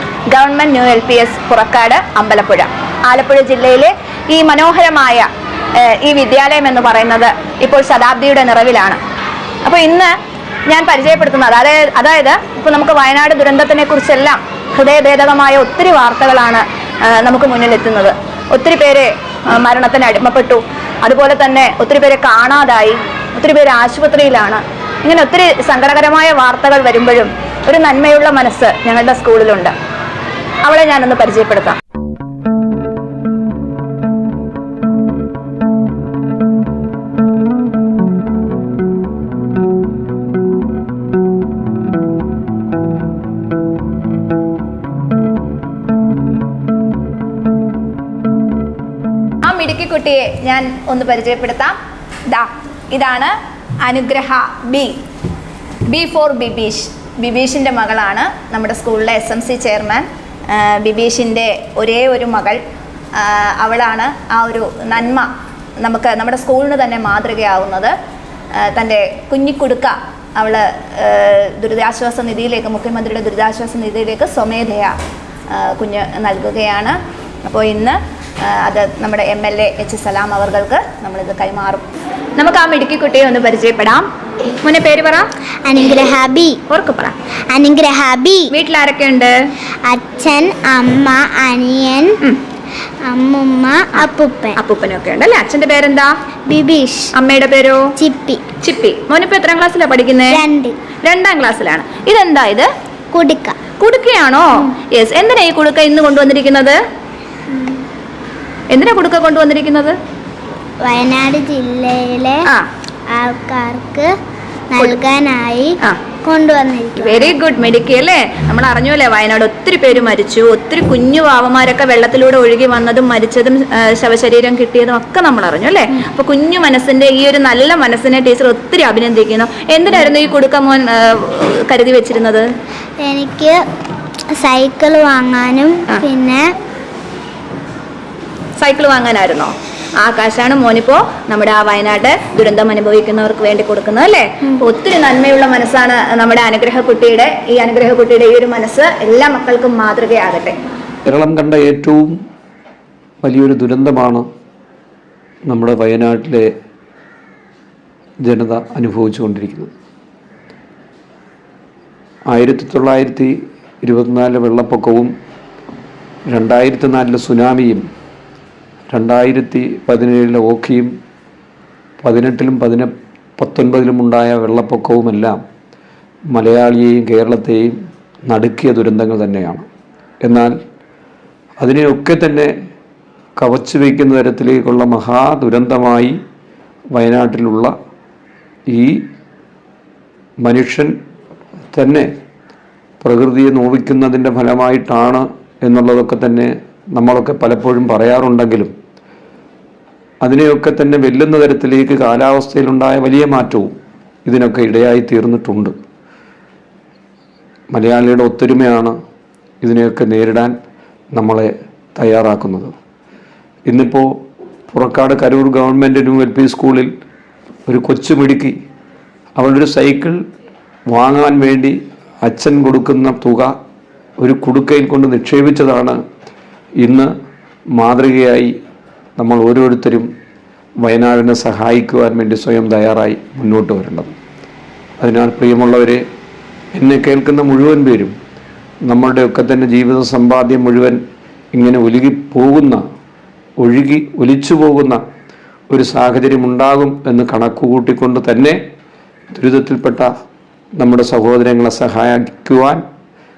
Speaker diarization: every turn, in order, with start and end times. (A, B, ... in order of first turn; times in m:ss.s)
0:00.3-0:05.3 A
0:05.8-0:09.0 A
0:09.6-0:10.1 A
0:10.7-0:29.7 A
0:30.6-0:31.8 A
0:49.4-0:51.8 A
0:52.3-0:55.0 A
0:55.9-1:02.6 A
1:03.2-1:05.3 A
1:05.8-1:07.9 A
1:08.6-1:15.0 A
1:15.5-1:21.8 A
1:22.4-1:24.1 A
1:24.6-1:25.3 A
1:25.7-1:26.6 B
1:26.7-1:27.1 A
1:27.5-1:28.5 B
1:28.5-1:29.3 A
1:29.9-1:32.1 B
1:33.1-1:34.6 B
1:34.6-1:36.1 A
1:36.5-1:37.1 B
1:37.2-1:37.9 A
1:38.0-1:38.4 B
1:38.6-1:40.4 A
1:40.3-1:40.8 B
1:41.0-1:42.7 A
1:43.1-1:43.6 B
1:43.8-1:46.8 A
1:47.5-1:47.8 B
1:48.7-1:50.0 A
1:50.8-1:52.4 B
1:53.1-1:54.1 B
1:54.7-1:57.4 B
1:57.0-2:12.5 A
2:13.0-2:13.6 B
2:14.4-2:16.4 B
2:18.6-2:30.6 A
2:31.1-2:32.2 C
2:33.2-2:34.2 C
2:35.5-2:36.5 C
2:38.2-2:39.7 C
2:42.3-2:45.1 C
2:46.3-2:47.8 C
2:48.9-2:50.9 C
2:52.0-2:55.4 C
2:56.3-2:57.8 C
2:58.3-2:59.7 C
3:00.2-3:00.5 C
3:01.6-3:02.5 C
3:03.4-3:06.2 C
3:06.9-3:07.7 C
3:08.7-3:09.0 C
3:10.4-3:10.9 C
3:11.7-3:12.1 C
3:13.0-3:18.7 C
3:20.2-3:23.7 C
3:24.3-3:25.7 C
3:27.7-3:28.9 C
3:29.6-3:30.5 C
3:31.1-3:32.7 C
3:33.7-3:36.9 C
3:37.7-3:38.6 C
3:39.4-3:40.2 C
3:40.9-3:43.5 C
3:44.2-3:46.0 C
3:46.8-3:47.1 C
3:47.8-3:48.5 C
3:49.2-3:50.1 C
3:50.8-3:54.2 C
3:55.0-3:56.0 C
3:56.7-3:58.1 C
3:58.9-4:01.0 C
4:01.5-4:02.8 C
4:03.6-4:05.0 C
4:05.7-4:08.6 C
4:09.4-4:10.1 C
4:10.8-4:12.8 C